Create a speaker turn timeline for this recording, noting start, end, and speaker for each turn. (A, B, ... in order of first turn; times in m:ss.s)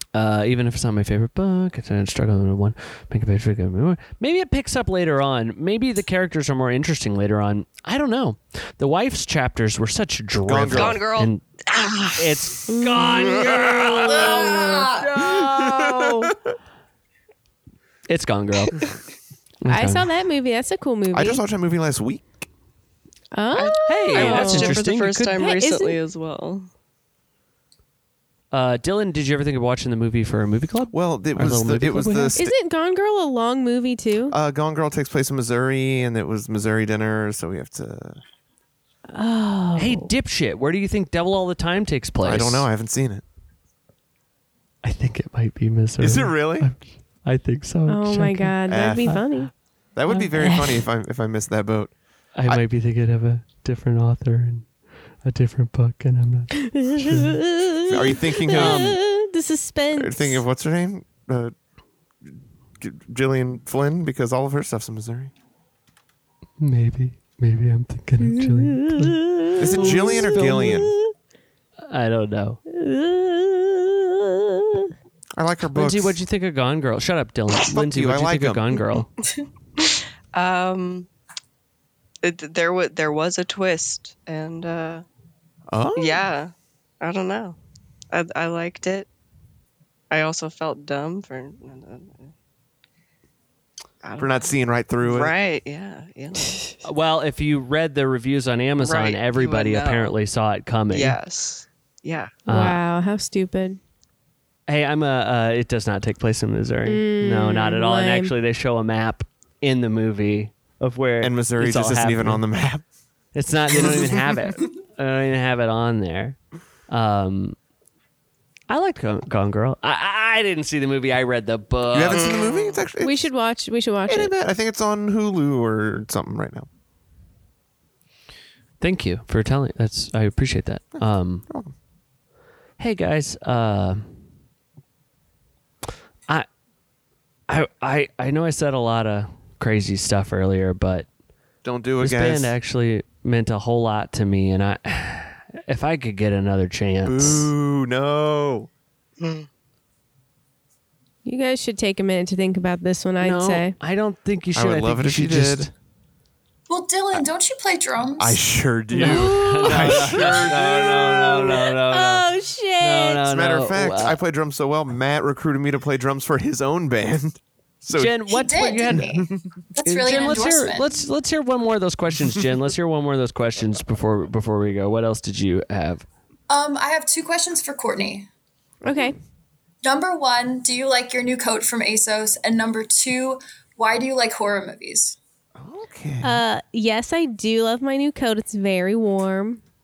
0:00.1-0:11.4 A
0:10.4-0:11.0 B
0:10.7-0:12.5 C
0:12.1-0:16.1 A
0:12.7-0:13.9 D
0:13.1-0:14.0 B
0:14.1-0:15.1 E
0:15.1-0:16.3 B
0:15.2-0:15.6 C
0:18.1-0:18.8 A
0:19.6-0:20.1 A
0:19.7-0:21.4 D
0:21.1-0:22.5 B
0:23.3-0:24.8 D
0:23.5-0:26.7 C
0:23.8-0:25.4 A
0:25.4-0:26.0 D
0:28.5-0:32.4 A
0:30.9-0:32.6 B
0:32.3-0:34.4 D
0:34.3-0:38.2 B
0:39.1-0:40.1 D
0:39.8-0:42.7 A
0:42.2-0:43.2 B
0:44.8-0:49.2 A
0:46.0-0:46.7 B
0:47.9-0:49.5 D
0:48.7-0:49.2 B
0:49.9-0:51.9 B
0:50.1-0:50.8 D
0:52.4-0:54.7 A
0:55.2-0:57.4 A
0:56.7-1:00.4 D
0:57.9-0:59.0 B
0:58.5-0:59.0 A
1:00.0-1:01.5 B
1:02.2-1:05.3 B
1:06.6-1:09.2 A
1:08.2-1:11.0 D
1:09.6-1:10.9 B
1:09.7-1:10.8 A
1:11.8-1:12.6 A
1:12.7-1:14.9 D
1:15.4-1:16.2 B
1:15.7-1:19.1 A
1:17.6-1:18.8 B
1:19.9-1:21.1 C
1:22.2-1:25.0 C
1:25.7-1:26.3 B
1:26.0-1:27.6 C
1:28.1-1:29.1 C
1:30.1-1:32.3 C
1:34.0-1:34.5 C
1:34.2-1:35.3 B
1:35.0-1:36.7 C
1:36.8-1:41.2 A
1:38.8-1:40.1 C
1:40.9-1:42.4 C
1:42.5-1:42.8 A
1:42.5-1:43.8 D
1:44.7-1:52.4 A
1:46.8-1:48.3 D
1:51.2-1:52.8 B
1:53.3-1:57.6 A
1:53.8-1:54.2 B
1:58.7-2:02.5 A
2:01.9-2:03.3 B
2:02.1-2:02.8 C
2:03.0-2:04.3 D
2:04.1-2:06.7 B
2:08.8-2:11.4 A
2:10.9-2:11.7 B
2:12.8-2:14.1 A
2:17.5-2:21.1 A
2:21.6-2:22.5 B
2:22.0-2:27.5 A
2:27.0-2:28.7 B
2:29.2-2:29.5 C
2:31.2-2:33.7 D
2:33.2-2:35.7 A
2:34.5-2:35.7 B
2:36.7-2:38.4 E
2:38.2-2:41.6 B
2:38.9-2:42.3 A
2:41.8-2:43.3 D
2:42.8-2:44.2 A
2:43.3-2:48.3 B
2:47.9-2:49.1 A
2:48.3-2:50.9 E
2:48.9-2:49.4 B
2:49.8-2:56.0 A
2:56.5-2:58.3 E
2:58.8-2:59.2 D
2:59.8-3:05.2 E
3:05.6-3:06.4 B
3:06.2-3:09.6 D